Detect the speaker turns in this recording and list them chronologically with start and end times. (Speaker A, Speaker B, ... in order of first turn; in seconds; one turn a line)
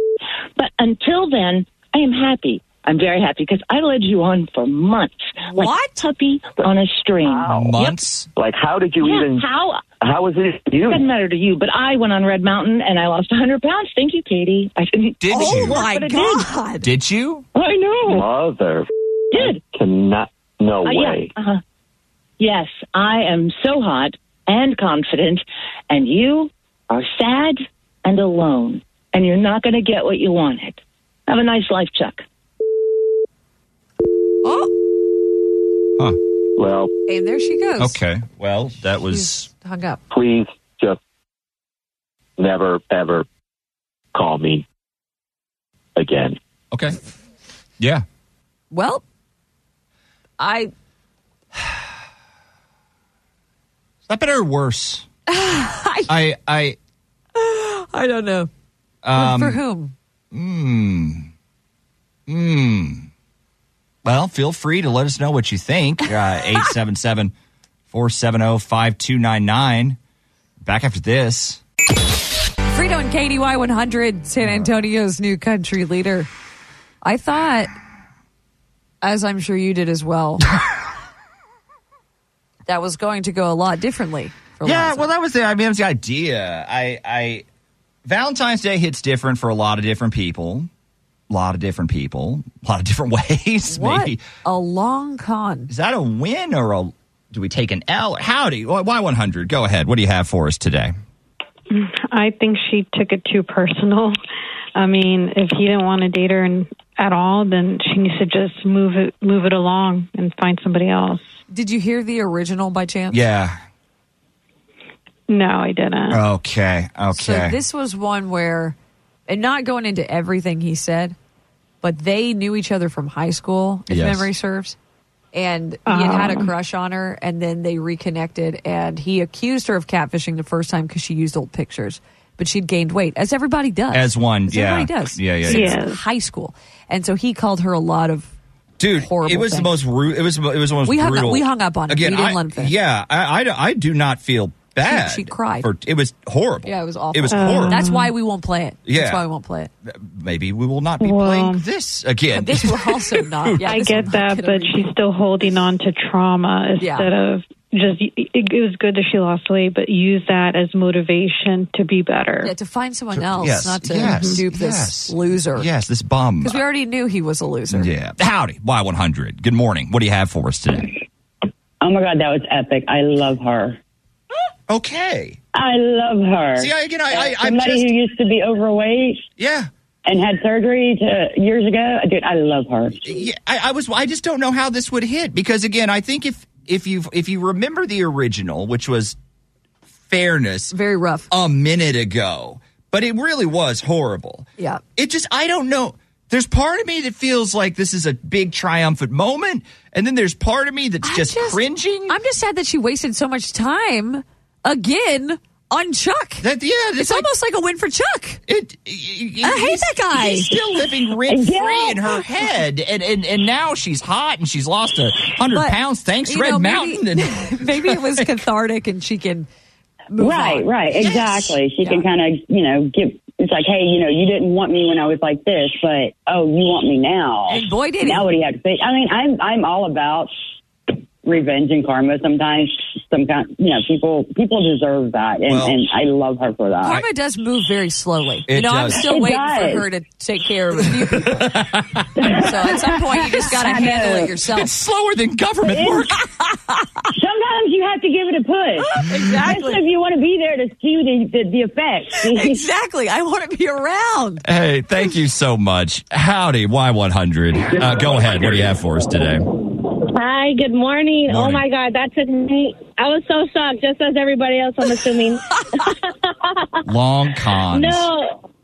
Speaker A: 0.6-8.0
Speaker B: 5.5-6.0
Speaker C: 7.2-7.7
Speaker D: 7.4-8.3
Speaker C: 8.4-11.1
Speaker A: 9.0-9.9
Speaker A: 10.9-16.5
Speaker D: 15.2-15.8
Speaker B: 15.3-16.9
Speaker D: 16.8-17.5
Speaker A: 17.6-18.2
Speaker C: 18.0-21.3
Speaker A: 19.3-19.6
Speaker A: 20.8-21.6
Speaker A: 22.4-32.2
Speaker B: 34.4-34.7
Speaker C: 36.6-36.9
Speaker B: 37.1-38.0
Speaker D: 37.8-39.5
Speaker B: 39.0-40.0
Speaker C: 40.1-41.0
Speaker C: 42.4-43.3
Speaker C: 44.1-44.7
Speaker C: 46.0-46.4
Speaker D: 47.8-48.0
Speaker B: 48.7-49.0
Speaker B: 50.4-50.7
Speaker D: 54.1-55.1
Speaker B: 55.3-56.1
Speaker D: 56.1-56.8
Speaker B: 57.4-58.5
Speaker D: 59.0-59.6
Speaker B: 59.1-59.9
Speaker D: 60.3-61.3
Speaker D: 62.3-63.1
Speaker D: 64.0-67.3
Speaker D: 67.9-70.0
Speaker D: 70.6-71.6
Speaker B: 72.7-76.3
Speaker D: 74.4-74.7
Speaker B: 77.0-77.7
Speaker B: 79.0-80.5
Speaker B: 82.7-85.1
Speaker D: 84.6-87.4
Speaker D: 88.1-90.7
Speaker D: 91.3-94.2
Speaker B: 93.7-95.7
Speaker D: 95.7-100.9
Speaker E: 101.7-104.2
Speaker E: 104.8-111.2
Speaker B: 111.5-113.2
Speaker D: 113.1-113.6
Speaker E: 115.3-116.2
Speaker D: 116.1-117.6
Speaker B: 117.1-118.8
Speaker B: 119.3-121.2
Speaker B: 121.8-124.8
Speaker D: 123.9-124.3
Speaker B: 125.3-138.3
Speaker E: 125.9-126.5
Speaker D: 133.9-135.8
Speaker E: 135.5-136.0
Speaker D: 138.8-147.8
Speaker B: 139.0-139.8
Speaker B: 140.9-142.7
Speaker B: 144.8-145.7
Speaker B: 146.7-149.7
Speaker E: 147.3-148.1
Speaker D: 148.9-149.2
Speaker D: 149.8-154.2
Speaker E: 151.0-151.6
Speaker B: 152.4-154.9
Speaker E: 153.6-162.5
Speaker B: 156.8-157.1
Speaker B: 162.4-165.7
Speaker D: 163.2-166.6
Speaker E: 164.1-164.4
Speaker B: 166.4-167.9
Speaker D: 167.7-171.0
Speaker F: 171.8-173.8
Speaker D: 174.7-175.4
Speaker F: 175.5-179.3
Speaker D: 176.6-177.9
Speaker D: 179.4-179.7
Speaker F: 180.1-183.2
Speaker D: 182.9-189.2
Speaker D: 190.1-190.7
Speaker B: 190.7-191.3
Speaker D: 191.3-202.2
Speaker B: 201.0-206.4
Speaker D: 206.4-207.3
Speaker B: 207.0-208.4
Speaker D: 208.5-218.2
Speaker B: 209.4-210.6
Speaker F: 211.3-212.1
Speaker B: 215.5-219.5
Speaker B: 220.1-222.1
Speaker F: 220.2-230.3
Speaker D: 221.0-221.5
Speaker B: 227.5-228.3
Speaker F: 231.2-237.0
Speaker D: 235.5-235.8
Speaker B: 236.8-241.5
Speaker D: 238.5-239.1
Speaker F: 239.0-239.8
Speaker D: 241.1-242.1
Speaker F: 242.2-244.4
Speaker B: 242.2-244.7
Speaker D: 244.5-246.2
Speaker F: 245.6-246.1
Speaker F: 247.2-252.6
Speaker B: 248.8-249.8
Speaker B: 252.1-254.4
Speaker D: 254.4-259.5
Speaker G: 260.0-266.6
Speaker D: 261.3-261.6
Speaker D: 266.9-268.1
Speaker G: 267.7-268.4